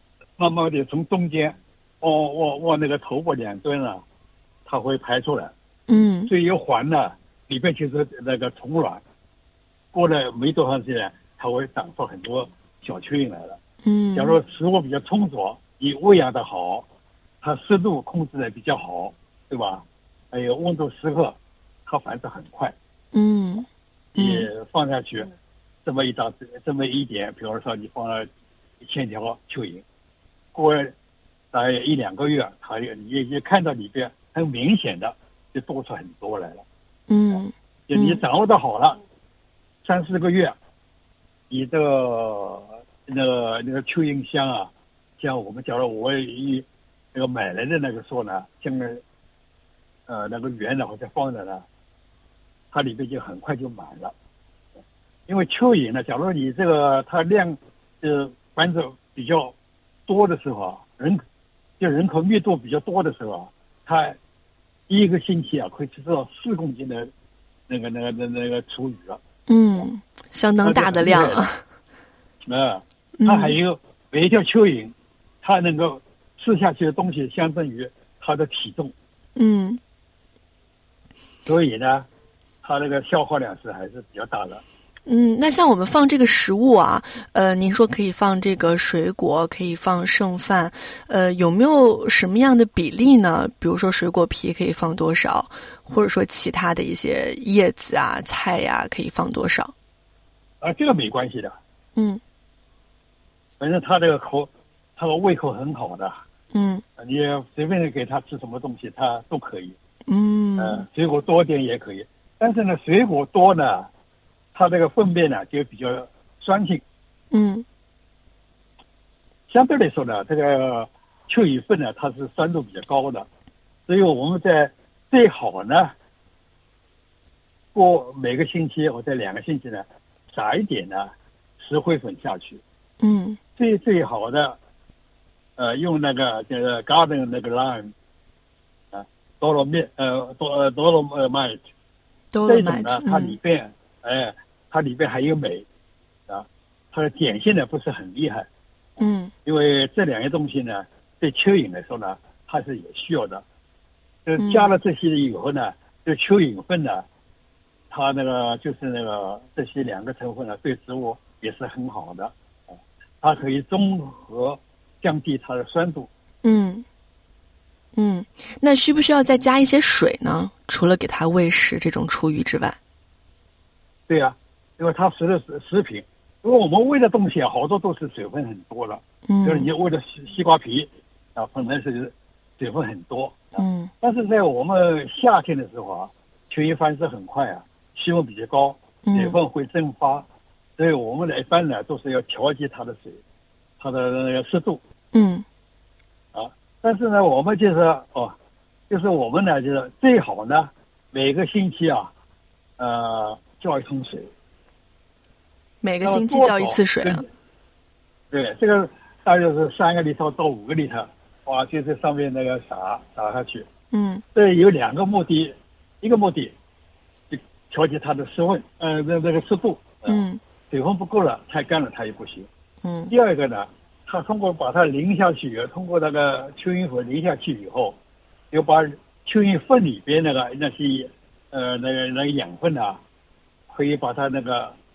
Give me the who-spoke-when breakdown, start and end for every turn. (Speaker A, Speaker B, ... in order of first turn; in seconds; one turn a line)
Speaker A: 0.4-4.0
Speaker A: 4.7-5.5
Speaker B: 5.9-6.3
Speaker A: 6.3-9.0
Speaker A: 9.9-13.6
Speaker B: 13.8-14.4
Speaker A: 14.2-16.9
Speaker A: 17.4-22.7
Speaker B: 23.1-24.5
Speaker A: 24.1-25.3
Speaker A: 25.9-28.3
Speaker A: 28.8-29.8
Speaker A: 30.6-30.9
Speaker A: 31.5-36.6
Speaker B: 37.1-38.2
Speaker A: 37.9-39.0
Speaker A: 39.8-40.5
Speaker A: 41.5-49.0
Speaker A: 50.1-51.6
Speaker A: 52.7-54.1
Speaker A: 55.3-59.5
Speaker A: 60.1-61.2
Speaker A: 61.8-64.2
Speaker A: 64.9-67.1
Speaker A: 67.7-69.2
Speaker B: 69.5-71.6
Speaker A: 70.6-71.5
Speaker A: 72.5-78.9
Speaker B: 73.2-73.6
Speaker B: 79.4-79.8
Speaker A: 81.5-82.1
Speaker A: 82.6-84.6
Speaker B: 85.1-99.7
Speaker A: 100.6-101.6
Speaker B: 102.0-102.2
Speaker A: 103.6-106.2
Speaker B: 106.5-106.8
Speaker A: 107.0-109.8
Speaker B: 110.1-110.9
Speaker A: 110.6-113.9
Speaker A: 114.5-116.8
Speaker B: 117.3-117.6
Speaker A: 119.5-123.3
Speaker A: 123.9-125.9
Speaker A: 127.7-132.6
Speaker B: 133.0-133.4
Speaker A: 133.6-134.6
Speaker A: 135.6-137.9
Speaker A: 138.9-141.6
Speaker B: 142.3-143.4
Speaker A: 142.4-145.7
Speaker A: 146.3-148.5
Speaker B: 149.0-149.3
Speaker A: 149.4-153.4
Speaker A: 154.2-157.1
Speaker B: 154.4-154.8
Speaker A: 157.9-166.1
Speaker B: 166.4-166.8
Speaker B: 167.9-172.8
Speaker A: 174.1-190.2
Speaker B: 179.2-179.7
Speaker B: 183.6-183.9
Speaker B: 189.1-189.4
Speaker A: 190.8-193.2
Speaker A: 193.8-194.8
Speaker B: 195.1-195.4
Speaker A: 196.3-198.3
Speaker A: 198.9-202.1
Speaker A: 202.8-204.3
Speaker B: 205.8-207.2
Speaker A: 206.0-207.3
Speaker A: 208.3-213.7
Speaker B: 213.9-214.2
Speaker A: 214.3-216.5
Speaker A: 217.3-222.5
Speaker B: 220.1-220.4
Speaker B: 222.8-223.1
Speaker A: 223.1-228.0
Speaker A: 228.5-233.0
Speaker A: 233.7-234.7